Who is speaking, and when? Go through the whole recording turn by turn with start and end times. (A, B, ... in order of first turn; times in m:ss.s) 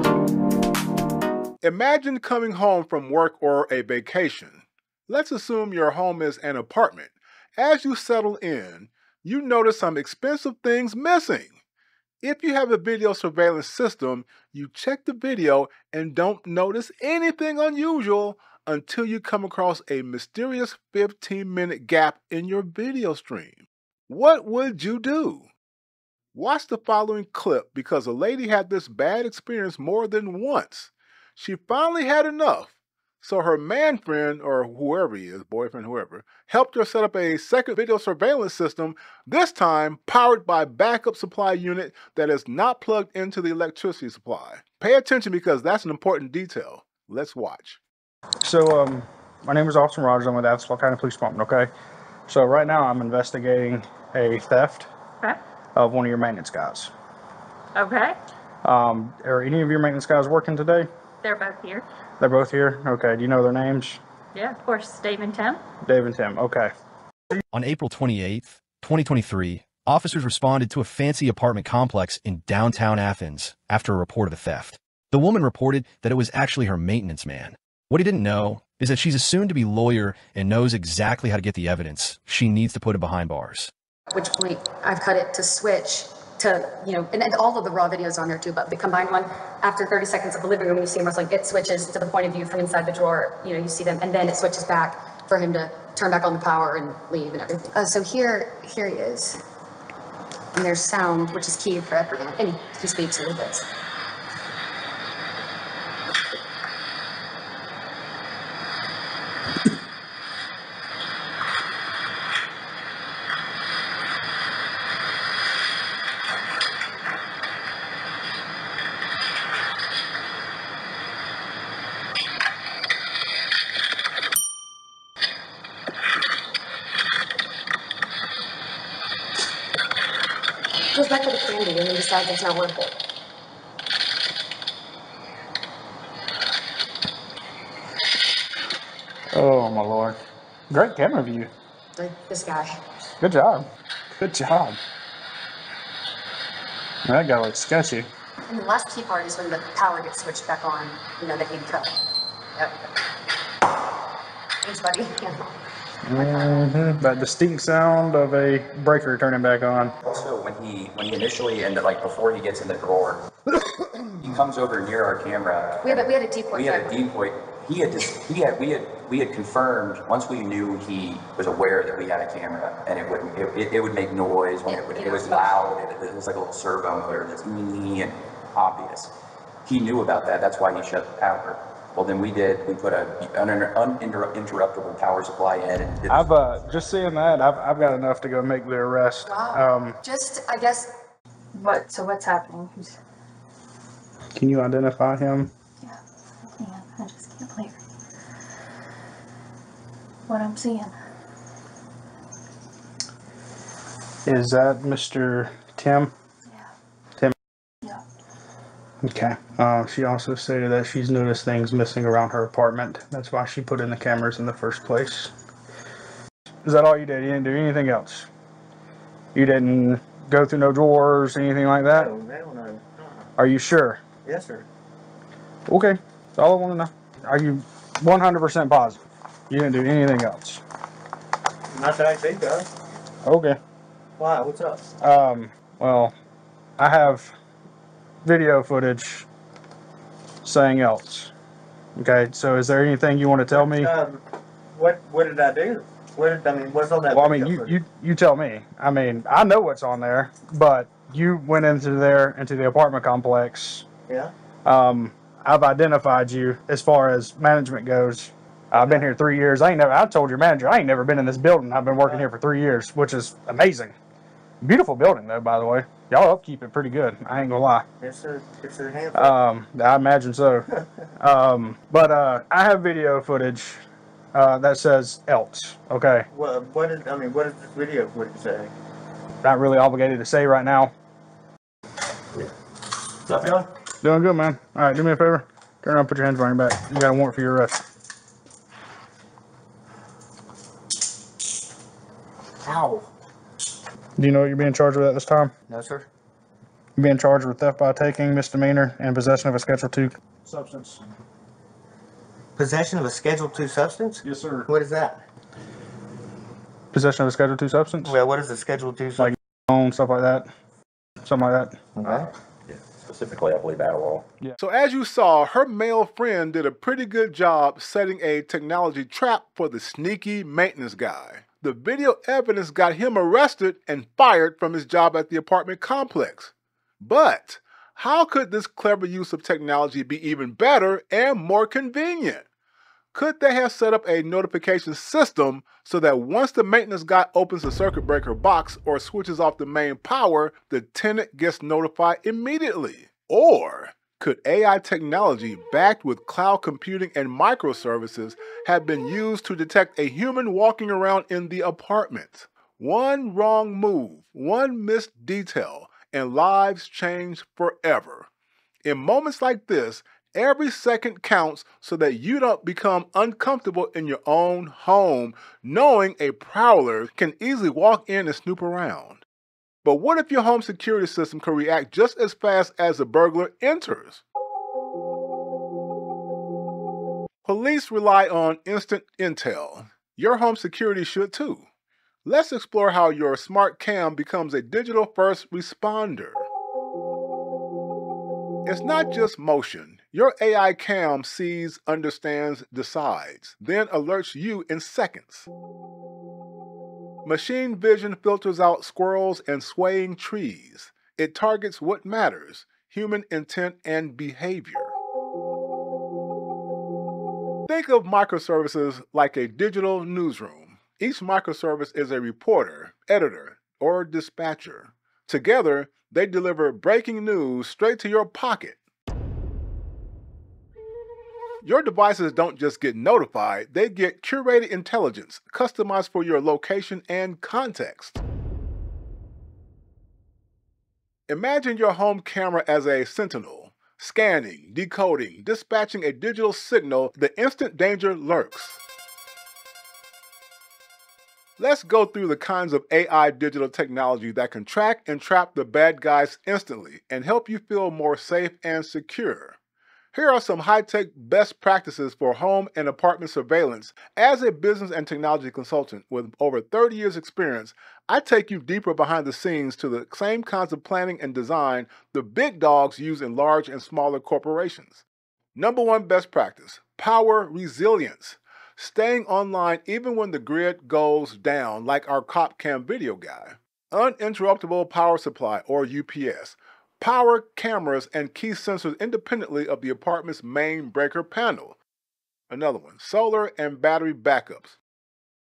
0:01.6-0:11.6 A
0:12.2-0:25.5 A
0:26.3-0:47.8 A
0:48.4-0:51.7 B
0:52.3-0:54.9 B
0:55.8-0:56.9 B
0:57.8-0:58.2 C
0:58.6-1:00.9 B
1:01.2-1:01.8 C
1:02.2-1:04.0 B
1:04.3-1:05.6 C
1:05.8-1:06.7 B
1:07.5-1:23.7 D
1:24.1-1:39.4 E
1:40.5-1:43.6 E
2:10.9-2:12.9 E
2:19.3-2:20.2 B
2:20.7-2:21.5 B
2:22.0-2:22.8 E
2:23.2-2:24.8 B
2:27.1-2:28.1 B
2:28.5-2:31.9 E
2:32.6-2:32.9 E
2:34.6-2:35.5 E
2:36.0-2:39.9 B
2:36.2-2:36.6 E
2:40.1-2:43.2 F
2:44.2-2:59.1 F
2:45.8-2:47.0 E
2:54.6-2:55.7 E
2:59.6-3:06.3 F
3:06.1-3:10.0 B
3:09.3-3:10.9 E
3:11.5-3:13.0 C
3:14.3-3:15.5 B
3:16.5-3:17.7 C
3:20.3-3:20.9 C
3:24.2-3:26.1 B
3:29.0-3:35.3 B
3:36.6-3:38.3 B
3:39.3-3:42.1 B
3:41.8-3:43.3 G
3:43.4-3:44.0 B
3:44.2-3:44.7 G
3:45.7-3:50.6 B
3:51.7-3:52.7 G
3:53.2-3:53.6 B
3:54.2-3:54.8 G
3:55.0-3:56.1 B
3:56.8-3:57.3 B
3:58.2-3:59.3 B
4:00.4-4:01.3 B
4:02.0-4:03.9 B
4:03.5-4:04.2 G
4:04.7-4:07.8 G
4:07.1-4:13.9 B
4:14.6-4:24.0 B
4:18.7-4:19.1 G
4:22.0-4:22.2 G
4:24.6-4:27.8 B
4:28.0-4:29.4 G
4:29.1-4:33.8 B
4:30.7-4:31.0 G
4:34.3-4:36.3 B
4:36.3-4:38.7 G
4:39.4-4:40.9 B
4:43.3-4:43.7 G
4:44.0-4:47.8 B
4:52.6-4:53.0 G
4:54.2-4:55.5 B
4:55.7-4:56.1 G
4:57.0-5:01.0 B
5:02.6-5:05.2 G
5:04.3-5:04.6 B
5:06.9-5:08.2 B
5:08.0-5:09.3 G
5:09.2-5:10.5 B
5:11.2-5:11.8 B
5:12.0-5:12.3 G
5:12.0-5:14.2 H
5:14.6-5:32.4 A
5:33.1-5:58.3 A
5:58.8-6:09.2 A
6:09.8-6:14.2 A
6:17.4-6:21.7 A
6:22.2-6:26.5 A
6:28.6-6:35.5 A
6:37.2-6:45.0 A
6:47.7-6:58.8 A
7:01.6-7:08.2 A
7:11.3-7:18.8 A
7:21.6-7:29.6 A
7:30.1-7:45.0 A
7:45.5-8:01.8 A
8:02.5-8:04.8 A